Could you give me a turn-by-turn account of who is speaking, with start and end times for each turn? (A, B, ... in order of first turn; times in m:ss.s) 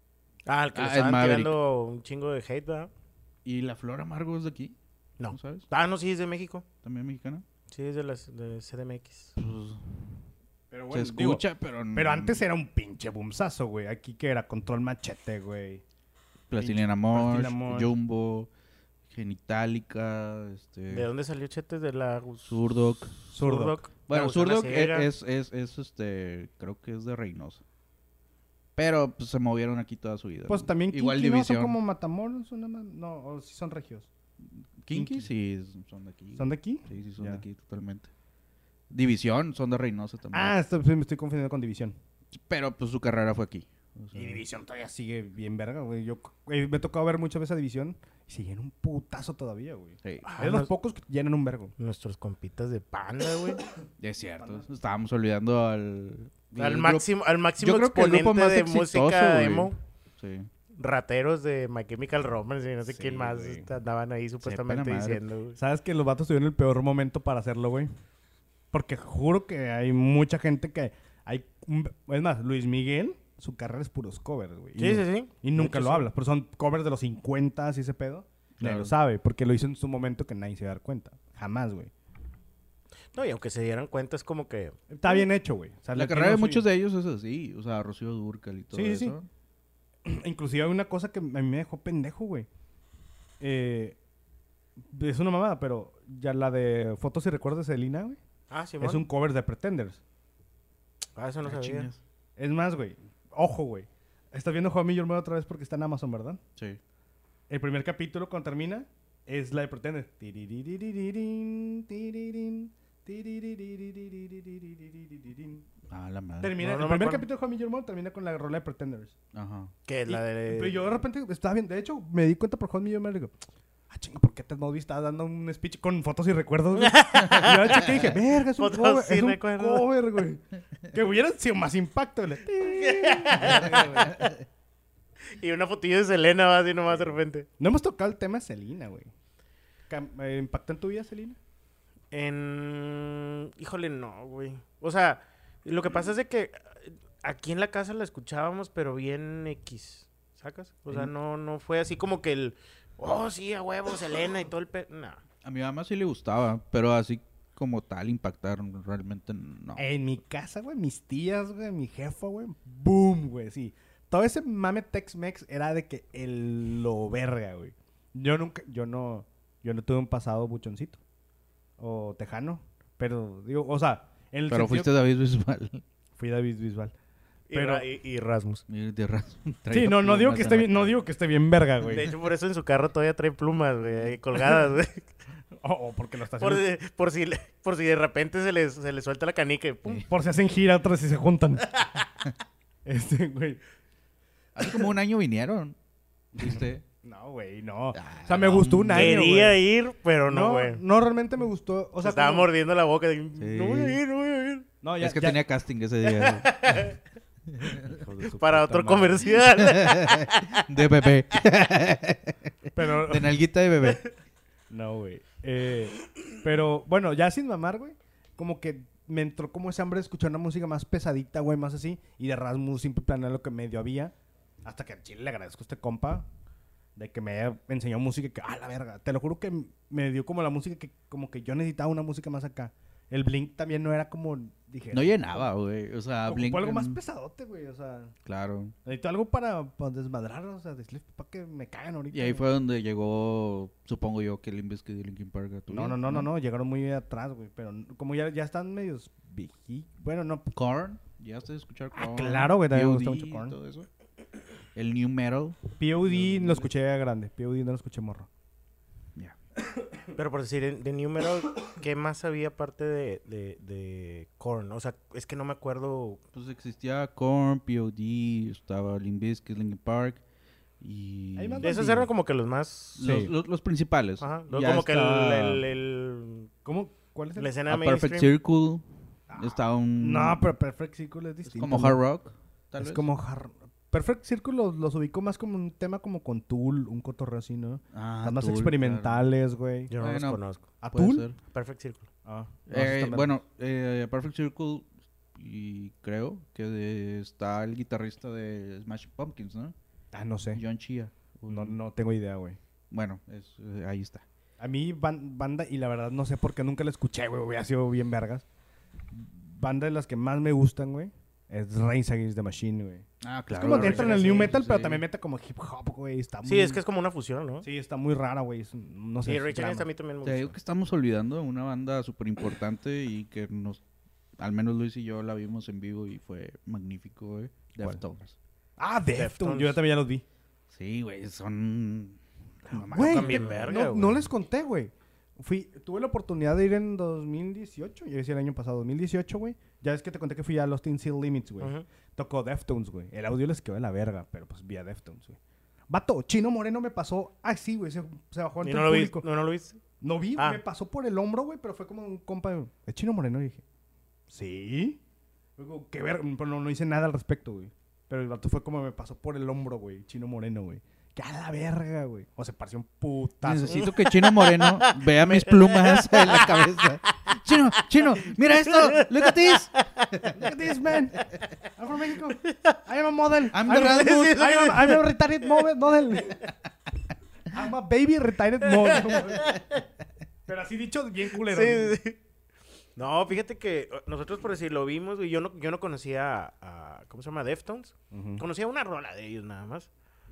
0:00.5-0:02.9 A
0:00.8-0:01.6 B
0:03.4-0:04.8 B
0:05.2-0:06.6 A
0:05.3-0:05.7 B
0:06.8-0:07.4 B
0:07.7-0:09.3 A
0:09.4-0:10.0 B
0:10.7-0:15.8 C
0:10.9-0:12.4 B
0:16.5-0:18.5 B
0:16.5-0:17.9 C
0:19.1-0:21.1 B
0:20.9-0:22.6 A
0:22.5-0:23.3 B
0:23.3-0:23.8 C
0:23.4-0:25.1 A
0:24.1-0:27.6 B
0:28.8-0:31.8 B
0:30.5-0:34.1 C
0:34.8-0:38.1 B
0:34.9-0:35.3 C
0:36.4-0:37.4 C
0:38.9-0:40.6 B
0:40.3-0:42.0 C
0:42.3-0:44.4 B
0:44.1-0:51.7 C
0:50.0-0:50.3 B
0:50.2-0:50.7 A
0:51.8-0:53.6 A
0:54.0-0:57.0 B
0:54.4-0:54.6 C
0:56.6-0:59.8 A
0:57.6-1:00.5 B
1:00.8-1:05.6 A
1:03.0-1:03.7 C
1:04.4-1:05.2 B
1:05.6-1:07.9 C
1:08.7-1:21.9 C
1:14.8-1:16.0 A
1:18.6-1:18.9 B
1:23.1-1:25.2 A
1:24.9-1:26.7 C
1:26.0-1:29.3 B
1:28.7-1:29.2 C
1:30.0-1:32.5 C
1:33.4-1:34.0 C
1:34.9-1:38.2 C
1:38.5-1:39.0 A
1:38.8-1:40.0 C
1:41.2-1:41.9 A
1:41.4-1:42.0 B
1:42.4-1:46.4 C
1:47.5-1:55.6 C
1:55.9-1:56.6 B
1:56.4-1:59.2 C
1:56.6-1:57.2 A
1:59.3-1:59.7 B
1:59.9-2:00.8 A
2:00.1-2:03.3 C
2:03.9-2:14.1 C
2:06.8-2:09.9 A
2:12.6-2:14.3 A
2:13.4-2:14.4 B
2:15.3-2:17.5 A
2:17.6-2:19.1 C
2:19.9-2:21.4 C
2:22.1-2:35.2 A
2:35.4-2:39.8 B
2:39.8-2:51.0 C
2:51.8-2:54.9 C
2:54.5-2:55.8 B
2:56.2-2:57.0 C
2:57.5-2:58.6 A
2:57.5-2:57.9 C
2:58.7-3:00.9 B
2:59.7-3:02.1 C
3:01.8-3:05.1 A
3:05.6-3:06.6 C
3:06.4-3:10.0 A
3:10.1-3:11.7 C
3:12.8-3:13.6 C
3:14.6-3:15.8 B
3:16.4-3:16.8 B
3:16.4-3:19.6 C
3:18.0-3:19.3 B
3:18.9-3:20.8 A
3:20.3-3:22.5 C
3:22.0-3:24.7 A
3:23.4-3:24.0 B
3:24.8-3:25.4 C
3:25.0-3:26.9 B
3:26.0-3:27.0 A
3:27.5-3:28.3 B
3:27.8-3:29.3 C
3:28.4-3:30.6 A
3:29.5-3:34.1 B
3:32.8-3:33.3 C
3:34.7-3:46.3 C
3:47.0-3:55.5 C
3:54.9-3:57.0 B
3:56.3-3:58.1 C
3:58.3-3:58.7 B
3:58.8-4:02.4 C
4:02.1-4:06.3 B
4:05.7-4:10.5 C
4:10.5-4:13.9 B
4:12.0-4:13.6 C
4:14.8-4:16.6 B
4:15.8-4:18.3 C
4:20.2-4:26.2 A
4:26.3-4:30.2 B
4:30.8-4:32.0 B
4:31.4-4:32.1 C
4:31.6-4:33.0 A
4:33.0-4:35.0 B
4:33.0-4:33.3 C
4:34.2-4:36.5 A
4:34.6-4:35.6 C
4:36.6-4:37.5 C
4:37.4-4:38.3 A
4:37.7-4:40.5 B
4:39.3-4:42.0 C
4:41.5-4:43.1 B
4:42.8-4:49.9 C
4:47.9-4:49.2 B
4:49.9-4:50.6 A
4:50.0-4:51.4 B
4:50.8-4:51.3 C
4:51.5-4:52.1 A
4:52.2-4:53.4 C
4:52.7-4:59.8 B
5:00.1-5:00.6 C
5:00.5-5:01.8 B
5:01.5-5:02.6 C
5:02.9-5:04.2 B
5:04.6-5:08.4 C
5:09.1-5:16.8 C
5:13.2-5:15.0 B
5:13.6-5:14.5 A
5:16.4-5:17.7 A
5:17.6-5:19.9 C
5:19.2-5:20.6 A
5:20.2-5:23.8 B
5:24.4-5:28.4 B
5:28.8-5:30.2 C
5:29.1-5:29.8 A
5:30.7-5:33.8 B
5:32.7-5:45.4 C
5:32.9-5:34.2 A
5:41.6-5:41.9 A
5:45.9-5:49.2 C
5:48.6-5:49.8 A
5:50.0-5:53.6 C
5:54.3-5:55.0 C
5:55.6-6:03.9 C
6:03.4-6:10.4 B
6:03.7-6:06.7 A
6:08.7-6:09.3 A
6:09.8-6:10.3 A
6:10.3-6:16.5 C
6:12.4-6:12.8 A
6:13.5-6:14.4 B
6:13.7-6:15.1 A
6:17.5-6:19.5 C
6:18.8-6:19.8 A
6:20.5-6:22.0 C
6:21.4-6:22.2 A
6:23.0-6:29.9 A
6:28.1-6:28.4 C